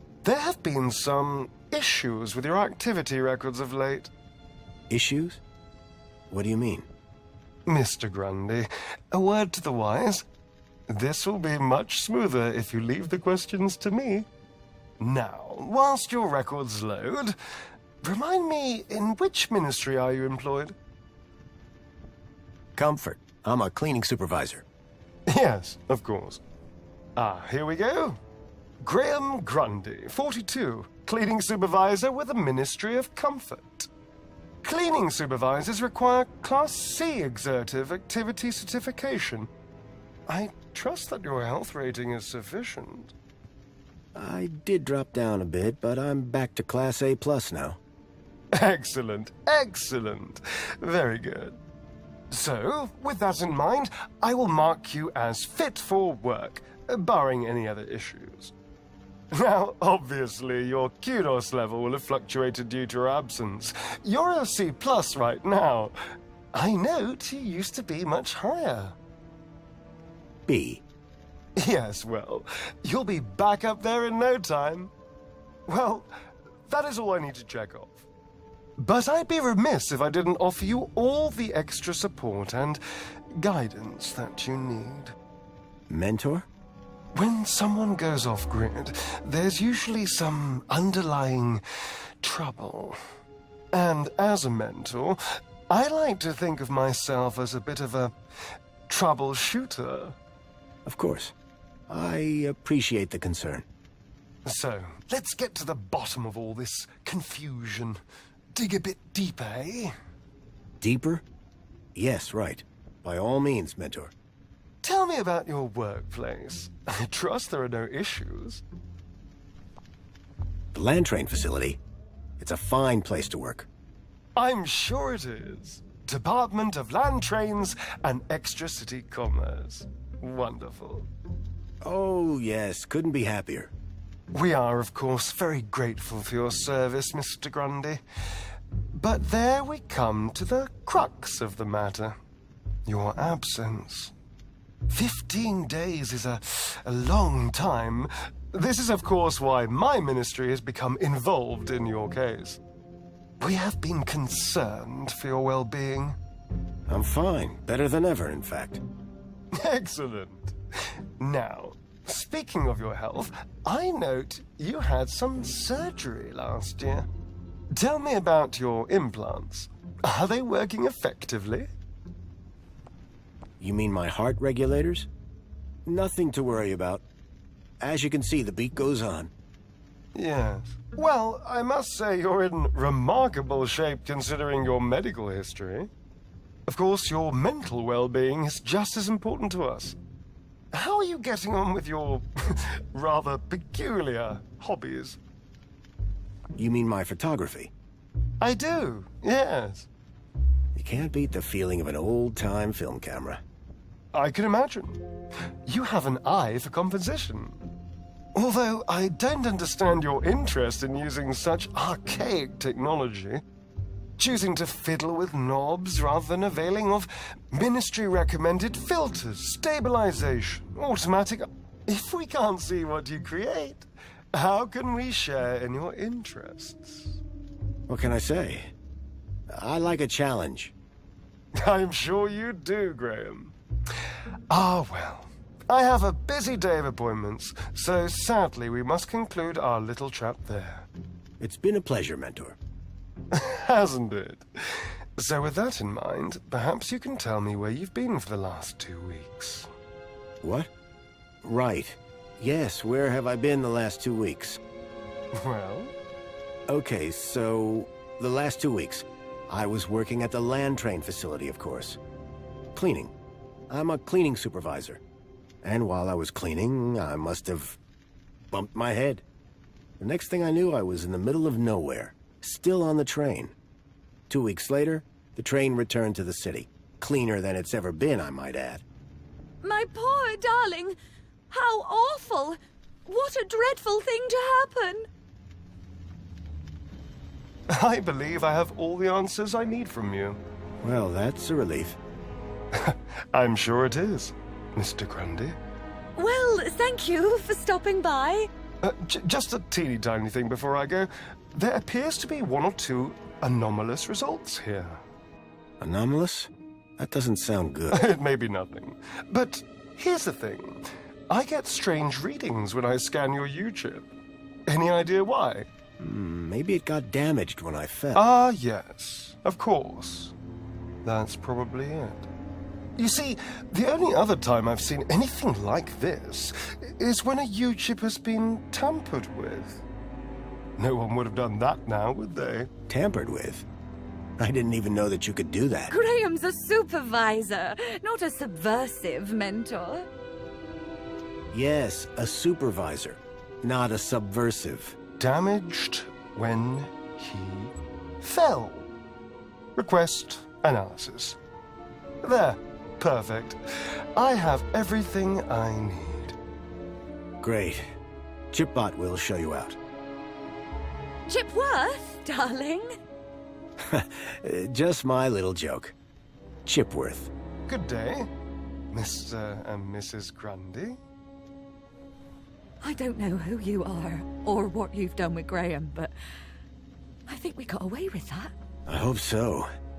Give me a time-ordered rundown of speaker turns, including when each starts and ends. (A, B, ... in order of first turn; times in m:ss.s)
0:00.2-0:04.1 A
0:04.9-0:05.4 B
0:06.3-0:06.9 B
0:07.7-0:10.2 A
0:10.9-0:14.3 A
0:15.0-0:17.4 A
0:18.0-0:20.8 A
0:22.8-0:24.6 B
0:25.3-0:26.4 A
0:27.2-0:28.2 A
0:28.8-0:33.9 A
0:34.6-0:39.5 A
0:40.3-0:43.1 A
0:44.2-0:47.8 B
0:48.5-0:51.6 A
0:52.3-0:58.5 A
0:59.3-1:06.0 A
1:06.5-1:09.0 A
1:10.5-1:10.8 B
1:11.6-1:14.9 A
1:15.7-1:16.1 A
1:16.7-1:18.0 A
1:18.8-1:22.8 A
1:23.4-1:25.2 A
1:25.9-1:26.5 B
1:27.2-1:33.0 A
1:33.7-1:38.2 A
1:38.9-1:40.2 A
1:40.8-1:41.4 B
1:41.9-1:43.7 B
1:44.4-1:48.0 A
1:48.6-1:49.9 A
1:50.8-1:51.2 B
1:52.0-1:54.1 B
1:54.8-1:58.6 A
2:00.7-2:01.8 B
2:02.4-2:03.7 B
2:04.4-2:11.1 A
2:11.8-2:13.7 B
2:14.3-2:18.0 A
2:18.9-2:22.2 A
2:22.9-2:24.1 A
2:24.9-2:32.6 A
2:33.4-2:36.2 A
2:36.9-2:38.8 B
2:39.5-2:47.1 A
2:47.7-2:51.7 A
2:53.6-2:55.1 B
2:55.8-2:57.0 B
2:57.8-2:59.3 B
3:00.2-3:05.9 A
3:06.7-3:10.0 A
3:10.7-3:15.2 A
3:16.6-3:17.7 B
3:18.4-3:19.9 A
3:20.7-3:23.4 B
3:24.1-3:25.1 A
3:25.7-3:27.6 A
3:28.4-3:33.4 A
3:34.2-3:47.2 A
3:47.9-3:48.7 B
3:49.5-3:50.7 B
3:51.6-3:53.5 A
3:54.5-4:00.9 A
4:01.4-4:02.6 B
4:03.3-4:09.7 A
4:10.4-4:10.7 B
4:11.4-4:14.6 B
4:15.3-4:15.9 A
4:16.7-4:22.0 B
4:22.7-4:23.1 B
4:23.7-4:25.0 B
4:25.6-4:27.8 B
4:28.5-4:29.2 B
4:30.0-4:33.6 B
4:34.3-4:38.8 B
4:39.6-4:41.0 C
4:41.5-4:45.1 C
4:47.7-4:50.4 A
4:50.8-4:52.0 B
4:52.7-4:55.6 A
4:56.2-4:58.5 C
4:58.8-5:05.0 A
5:05.8-5:08.1 B
5:07.9-5:14.1 A
5:14.7-5:15.7 A
5:16.0-5:18.3 B
5:18.2-5:20.3 A
5:21.0-5:22.3 A
5:23.0-5:29.8 A
5:30.8-5:32.7 A
5:32.9-5:33.7 B
5:34.4-5:36.0 B
5:35.9-5:40.1 C
5:41.5-5:45.0 B
5:45.2-5:48.9 A
5:49.8-5:51.4 A
5:52.2-5:56.4 A
5:57.4-5:57.9 B
5:58.5-5:59.8 B
6:01.3-6:02.9 C
6:03.8-6:05.9 B
6:06.7-6:07.3 B
6:07.7-6:08.3 A
6:08.9-6:11.0 A
6:12.8-6:16.1 C
6:17.3-6:18.5 C
6:18.9-6:19.7 B